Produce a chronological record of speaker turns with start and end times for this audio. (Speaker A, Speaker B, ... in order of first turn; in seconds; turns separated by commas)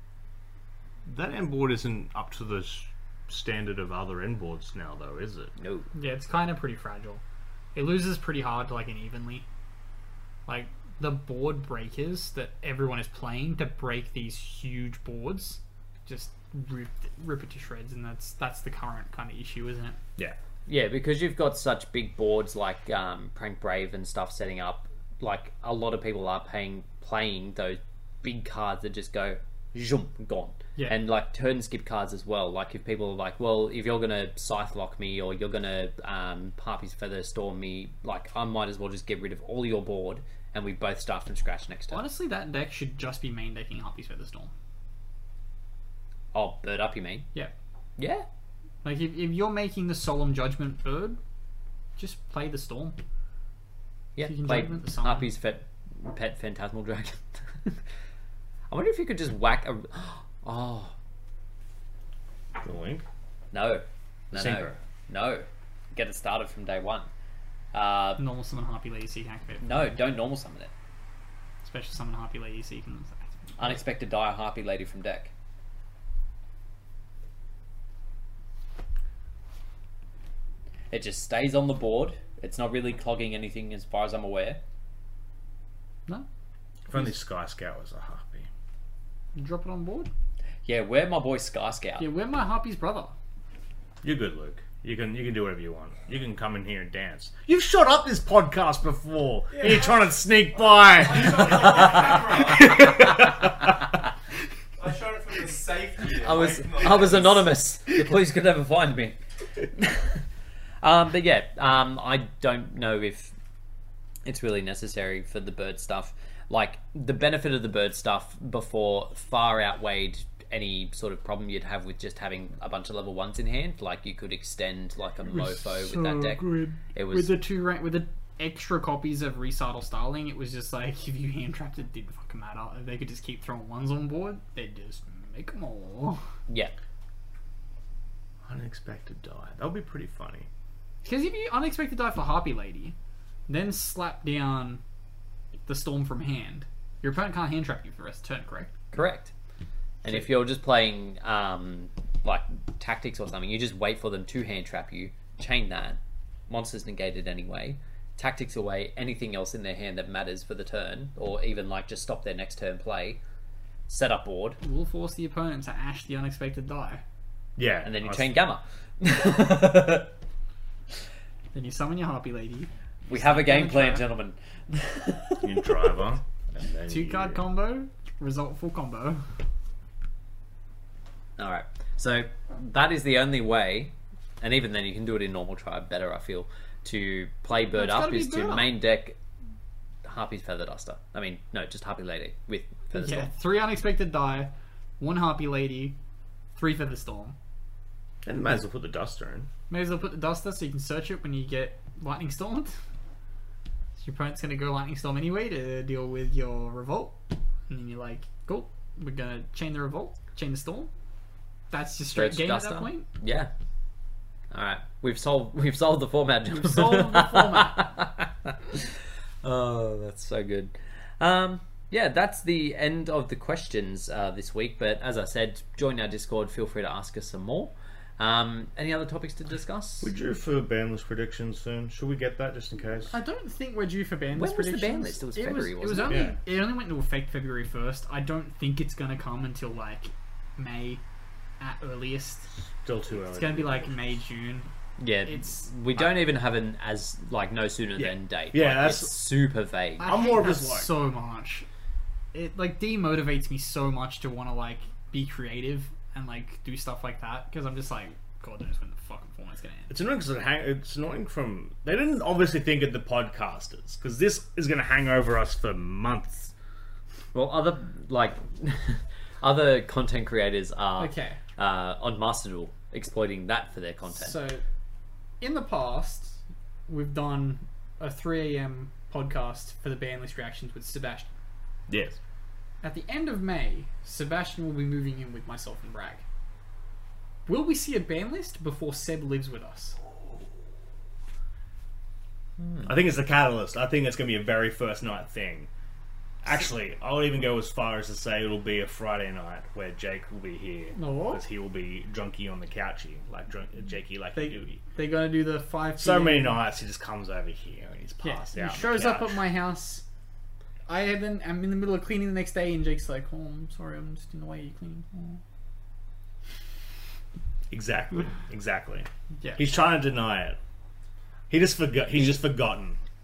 Speaker A: 1.1-5.5, Speaker B: 5.6-5.9, Speaker C: 6.0-7.2, Speaker C: 7.7-9.4, Speaker C: 10.5-20.0, Speaker B: 20.7-42.1, Speaker C: 41.9-44.5, Speaker B: 46.3-47.3, Speaker B: 48.0-48.3, Speaker C: 48.8-51.2, Speaker C: 52.0-53.0, Speaker B: 54.2-57.8, Speaker C: 54.2-55.3, Speaker B: 58.7-61.0, Speaker A: 62.6-63.0, Speaker B: 63.5-67.1, Speaker A: 64.3-64.8, Speaker B: 67.7-68.2, Speaker C: 68.2-69.7, Speaker B: 69.6-70.7, Speaker C: 71.6-73.7, Speaker B: 73.6-75.3, Speaker B: 80.9-84.6, Speaker A: 86.9-88.5, Speaker C: 89.4-90.1, Speaker B: 90.7-92.1, Speaker C: 92.0-93.1, Speaker A: 94.0-103.8, Speaker D: 99.5-99.9, Speaker D: 100.9-102.8, Speaker D: 104.8-107.5, Speaker B: 106.1-109.2, Speaker B: 109.8-110.2, Speaker B: 110.8-113.3, Speaker B: 114.2-126.4, Speaker C: 125.3-136.2, Speaker B: 126.9-127.4, Speaker B: 136.5-136.7, Speaker A: 138.4-140.5, Speaker C: 141.0-143.0, Speaker C: 143.5-144.8, Speaker C: 145.7-148.7, Speaker B: 148.9-149.3, Speaker B: 150.0-163.2, Speaker B: 163.9-164.6, Speaker C: 164.6-167.0, Speaker A: 167.6-168.4, Speaker B: 167.8-170.1, Speaker C: 171.5-174.1, Speaker B: 173.1-175.8, Speaker A: 175.4-177.4, Speaker C: 176.9-179.2, Speaker B: 181.4-189.2, Speaker C: 187.5-188.7, Speaker B: 190.1-193.3, Speaker C: 192.9-196.0, Speaker C: 196.6-197.4, Speaker A: 198.2-199.5, Speaker C: 199.7-202.8, Speaker C: 204.0-210.9, Speaker C: 211.7-213.1, Speaker B: 212.1-213.5, Speaker B: 214.5-230.1, Speaker C: 216.5-217.9, Speaker A: 230.0-233.2, Speaker C: 233.1-241.0, Speaker B: 234.3-236.3, Speaker A: 236.1-236.4, Speaker C: 241.6-242.5, Speaker A: 242.6-244.2, Speaker C: 243.2-244.7, Speaker B: 245.0-250.1, Speaker C: 245.3-245.5, Speaker A: 248.0-249.2, Speaker C: 250.0-251.7, Speaker A: 250.0-250.9, Speaker C: 252.3-259.9, Speaker A: 259.9-266.5, Speaker B: 267.3-274.4, Speaker C: 271.0-271.4, Speaker C: 274.1-274.6, Speaker C: 275.4-281.3, Speaker A: 281.9-282.2, Speaker C: 282.8-286.2, Speaker C: 287.5-290.0, Speaker A: 292.9-295.7, Speaker A: 296.4-304.8, Speaker C: 300.9-301.4, Speaker C: 304.4-306.6, Speaker A: 306.0-309.4, Speaker C: 308.2-310.0, Speaker C: 310.9-315.4, Speaker A: 317.7-320.6, Speaker A: 321.5-323.0